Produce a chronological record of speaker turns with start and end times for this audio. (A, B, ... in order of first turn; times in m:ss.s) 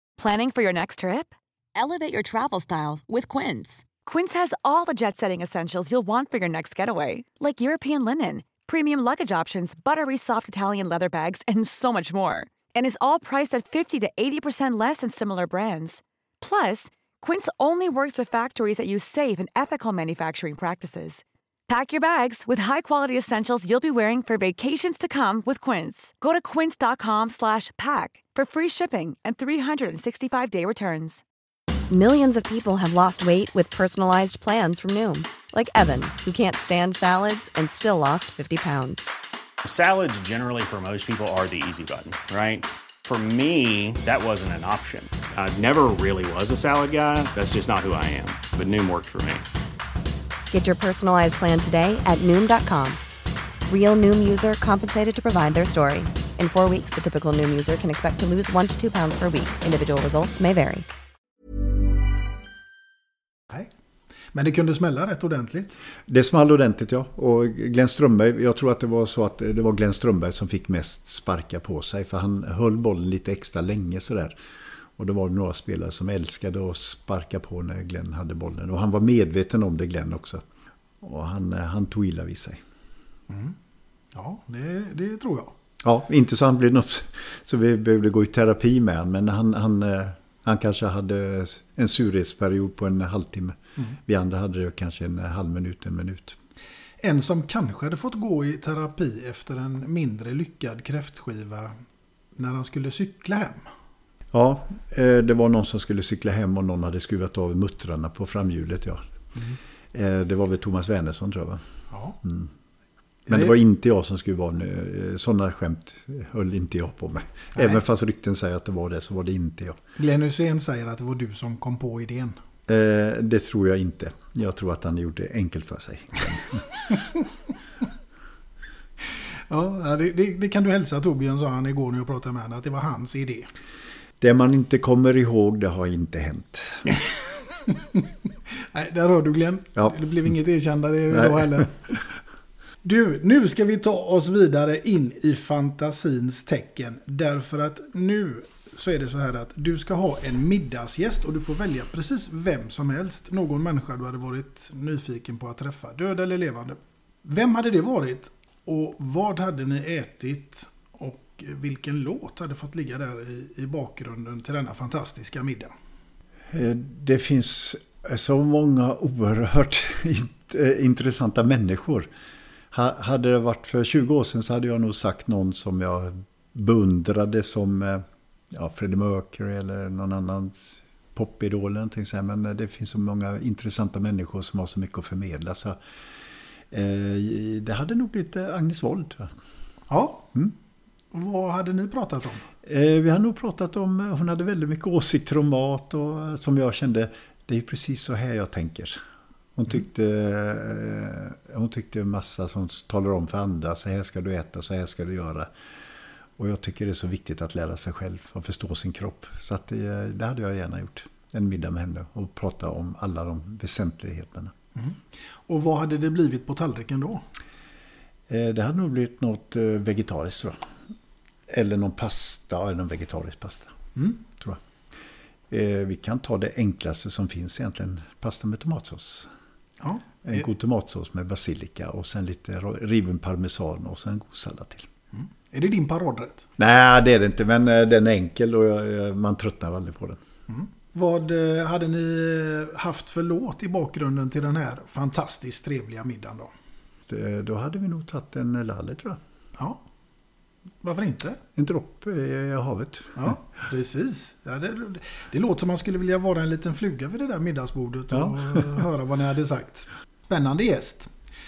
0:00.2-0:31.2 A
0:31.9-0:39.0 B
0:39.6-0:49.4 C
0:50.5-0:53.0 B
0:53.7-1:00.9 B
1:04.3-1:05.8 D
1:06.1-1:14.4 E
1:15.0-1:20.4 E
1:21.0-1:22.6 E
1:23.3-1:23.6 D
1:24.1-1:25.5 D
1:25.8-1:36.4 E
1:37.0-1:41.7 D
1:42.3-1:43.6 D
1:44.3-1:49.0 E
1:49.9-1:51.6 E
1:51.9-1:52.2 D
1:52.2-1:52.5 E
1:53.3-1:53.5 D
1:53.3-1:59.8 E
1:57.5-1:57.8 D
2:00.0-2:02.4 D
2:02.7-2:06.7 E
2:09.1-2:13.5 D
2:14.2-2:17.0 E
2:17.7-2:21.7 D
2:19.8-2:20.0 E
2:21.1-2:21.7 E
2:22.8-2:45.7 D
2:46.5-2:52.1 E
2:52.7-3:05.8 E
3:06.7-3:09.3 E
3:09.9-3:10.3 D
3:11.1-3:12.4 D
3:12.6-3:19.0 E
3:19.6-3:25.5 E
3:26.4-3:34.5 E
3:34.8-3:37.2 D
3:38.3-3:40.7 E
3:41.5-3:44.6 E
3:44.0-3:44.2 D
3:45.5-3:49.3 E
3:49.8-3:50.4 D
3:50.2-3:54.9 E
3:55.1-3:56.5 D
3:56.6-4:00.2 E
4:00.5-4:06.5 D
4:07.1-4:09.2 E
4:10.8-4:11.4 D
4:11.6-4:13.3 E
4:13.2-4:21.1 D
4:18.1-4:18.8 E